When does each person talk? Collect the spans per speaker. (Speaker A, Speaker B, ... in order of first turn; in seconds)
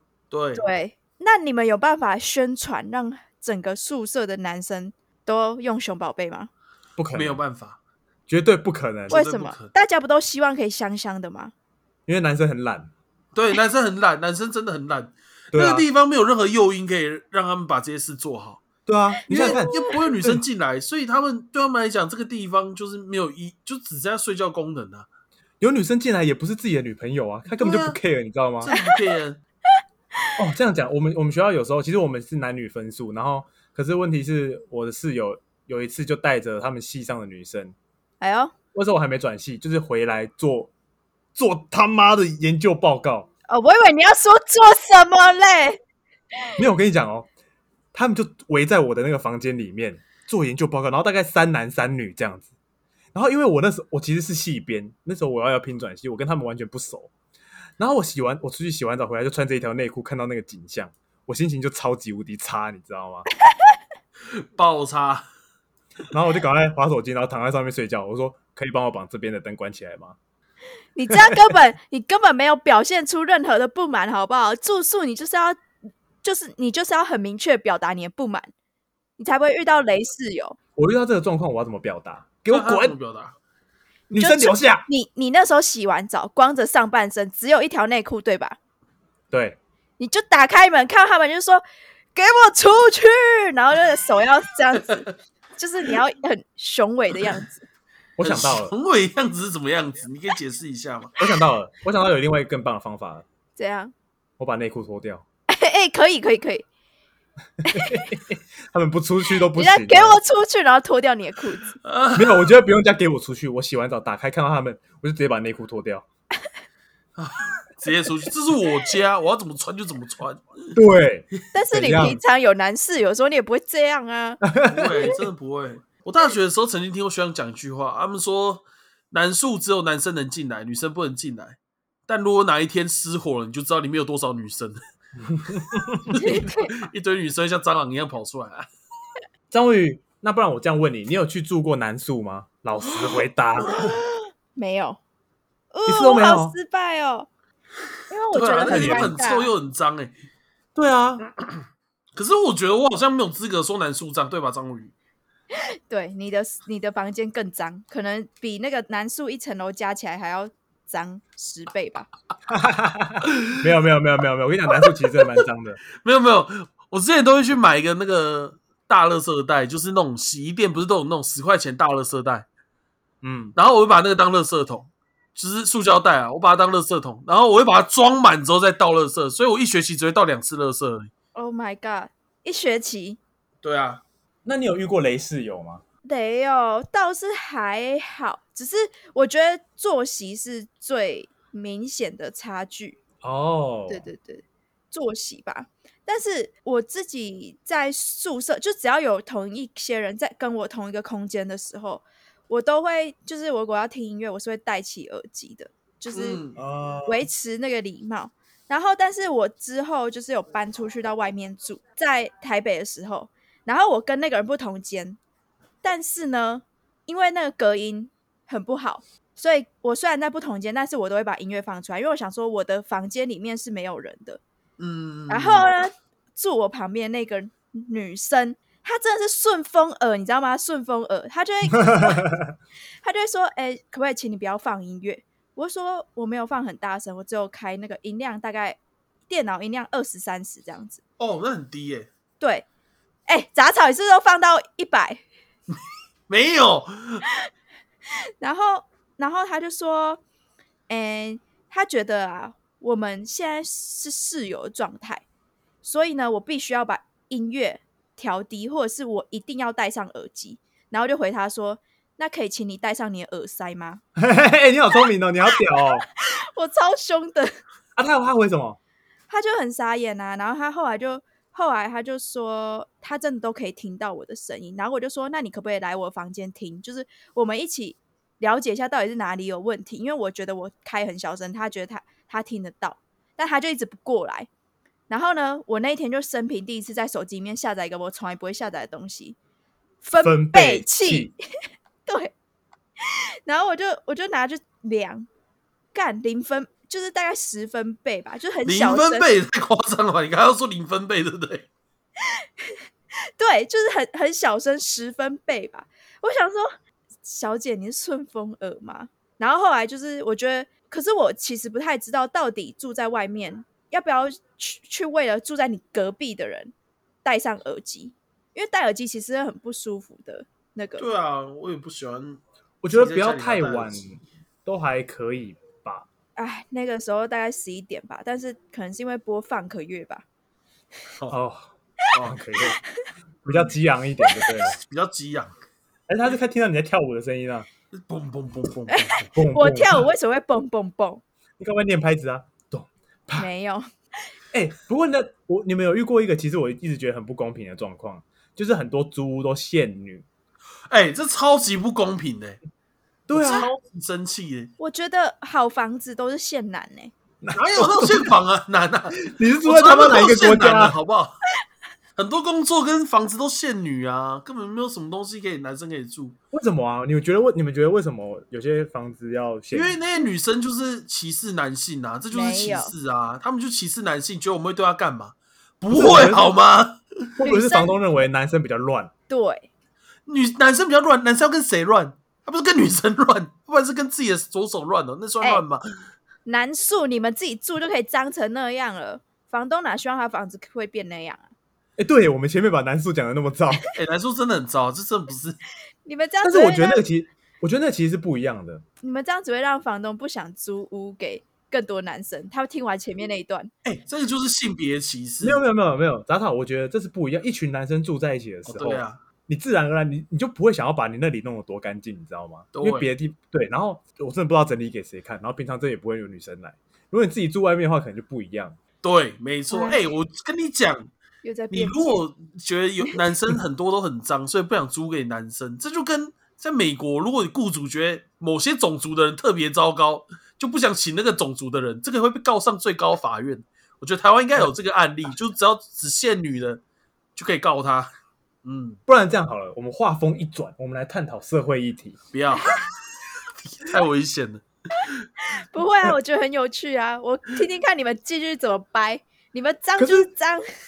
Speaker A: 0.3-0.6, 7.1-7.8, 9.1-9.7, 13.3-18.6, 19.3-25.1, 27.6-28.0, 28.6-29.4, 64.3-65.2, 82.5-83.3, 98.2-101.1, 111.8-112.5, 117.2-120.8, 124.7-134.8, 136.1-138.7, 148.3-150.1, 152.2-154.9, 166.0-172.4, 173.6-181.1, 183.6-184.0, 206.1-206.6, 224.8-225.7, 241.2-242.1, 246.3-247.2, 298.6-301.7, 321.0-324.0, 332.1-332.4, 334.8-335.5, 337.9-339.3, 350.9-352.6, 353.3-354.7, 357.5-361.4, 362.2-366.4, 369.7-377.0, 380.2-385.8, 393.9-395.6, 403.8-405.6, 408.7-409.2, 412.7-413.1, 419.0-421.1, 421.7-436.8, 437.4-438.1, 438.6-439.0, 442.3-442.8, 443.7-444.6
Speaker B: 0.6-6.5, 9.1-11.5, 19.4-19.9, 28.7-29.0, 38.2-38.5, 43.5-45.8, 70.9-75.6, 76.2-78.5, 79.2-80.6, 84.1-88.6, 90.0-91.6, 92.1-95.0, 95.6-97.7, 103.5-103.9, 105.5-106.7, 107.6-108.0, 109.5-111.7, 121.5-124.4, 136.2-136.8, 143.7-145.0, 145.7-147.3, 148.1-149.5, 155.5-162.1, 181.3-183.2, 186.0-193.0, 193.9-206.4, 207.1-215.2, 215.8-224.4, 225.3-232.3, 233.0-241.0, 242.4-242.7, 243.3-245.2, 248.4-250.2, 250.9-255.2, 255.8-264.0, 266.2-267.5, 269.3-284.5, 285.1-289.4, 290.0-291.4, 292.1-292.3, 293.4-295.3, 295.9-299.3, 303.4-306.7, 307.2-316.7, 317.2-321.1, 326.4-330.2, 338.9-341.2, 343.4-343.9, 354.8-357.1, 372.3-372.9, 377.4-377.9, 379.3-379.7, 386.4-391.5, 396.0-397.0, 399.0-403.7, 419.7-420.0, 421.4-422.1, 445.5-450.6
Speaker C: 7.0-7.4, 8.3-9.2, 12.1-12.9, 15.5-15.9, 18.9-20.4, 25.6-28.7, 30.4-37.7, 38.7-40.7, 41.3-43.3, 46.6-47.3, 47.9-52.5, 53.1-57.1, 57.8-63.2, 66.1-70.2, 71.1-71.5, 80.8-83.0, 84.1-84.8, 89.3-89.6, 98.2-98.7, 101.2-103.2, 104.4-105.2, 107.7-110.2, 112.1-116.0, 120.7-122.2, 124.4-125.1, 135.2-136.2, 139.5-143.8, 145.8-146.5, 148.6-149.2, 150.7-151.2, 162.5-165.8, 173.2-173.6, 184.4-185.8, 193.2-194.1, 206.5-207.2, 231.8-232.5, 264.1-266.1, 267.9-268.8, 290.2-291.3, 322.8-326.1, 331.3-331.7, 332.2-332.8, 333.4-334.8, 336.1-337.7, 339.3-340.1, 341.6-343.5, 344.5-350.2, 353.3-353.7, 357.4-358.3, 359.2-360.9, 366.5-370.0, 375.9-376.5, 377.4-379.1, 392.0-393.8, 396.4-398.8, 405.4-418.8, 439.1-442.2, 450.0-450.3